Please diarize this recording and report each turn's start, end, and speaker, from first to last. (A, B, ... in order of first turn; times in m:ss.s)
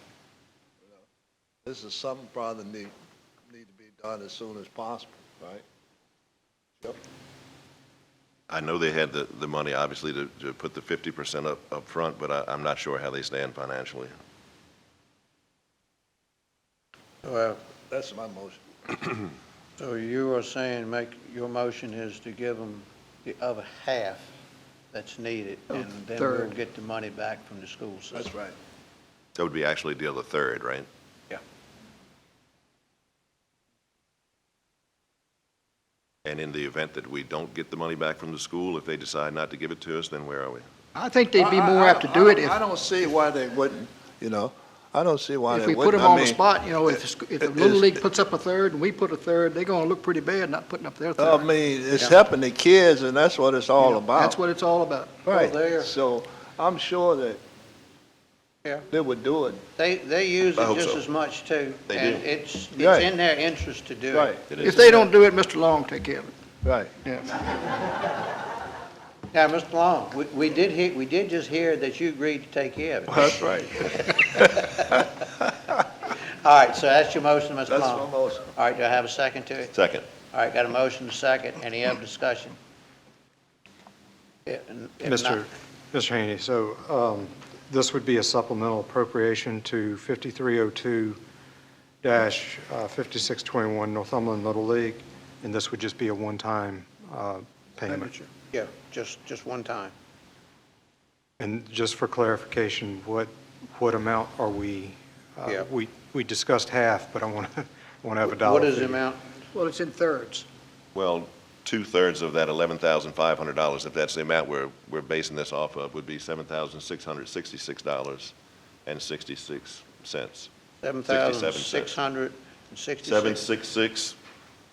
0:01.6-0:02.9 A
0:03.5-0:05.6 A
0:08.5-0:14.1 B
0:17.2-0:17.6 C
0:17.9-0:19.2 A
0:19.8-0:24.3 C
0:24.9-0:28.3 C
0:25.7-0:26.5 D
0:28.1-0:28.5 A
0:29.3-0:30.9 B
0:36.2-0:40.7 B
0:40.9-0:42.6 D
0:41.4-0:46.4 A
0:45.5-0:51.5 D
0:47.5-0:47.9 A
0:51.2-0:54.4 A
0:53.8-0:55.2 D
0:55.2-0:57.4 A
0:55.3-0:55.9 C
0:58.9-0:59.6 A
0:59.8-1:04.4 C
1:00.6-1:01.0 B
1:01.9-1:02.2 B
1:02.8-1:03.1 A
1:04.1-1:04.4 A
1:04.5-1:04.9 B
1:04.6-1:06.3 D
1:06.6-1:07.0 A
1:07.0-1:07.4 D
1:09.3-1:15.1 C
1:13.1-1:14.6 A
1:16.4-1:19.7 C
1:17.7-1:18.5 A
1:19.7-1:20.1 B
1:20.2-1:22.6 C
1:24.4-1:25.4 C
1:25.0-1:31.2 E
1:32.0-1:38.1 E
1:38.5-1:39.9 C
1:41.4-1:49.0 E
1:48.3-1:49.2 C
1:49.5-1:50.4 D
1:50.9-1:58.3 B
1:58.8-2:00.5 B
2:00.8-2:03.4 C
2:01.0-2:02.0 B
2:03.0-2:04.2 B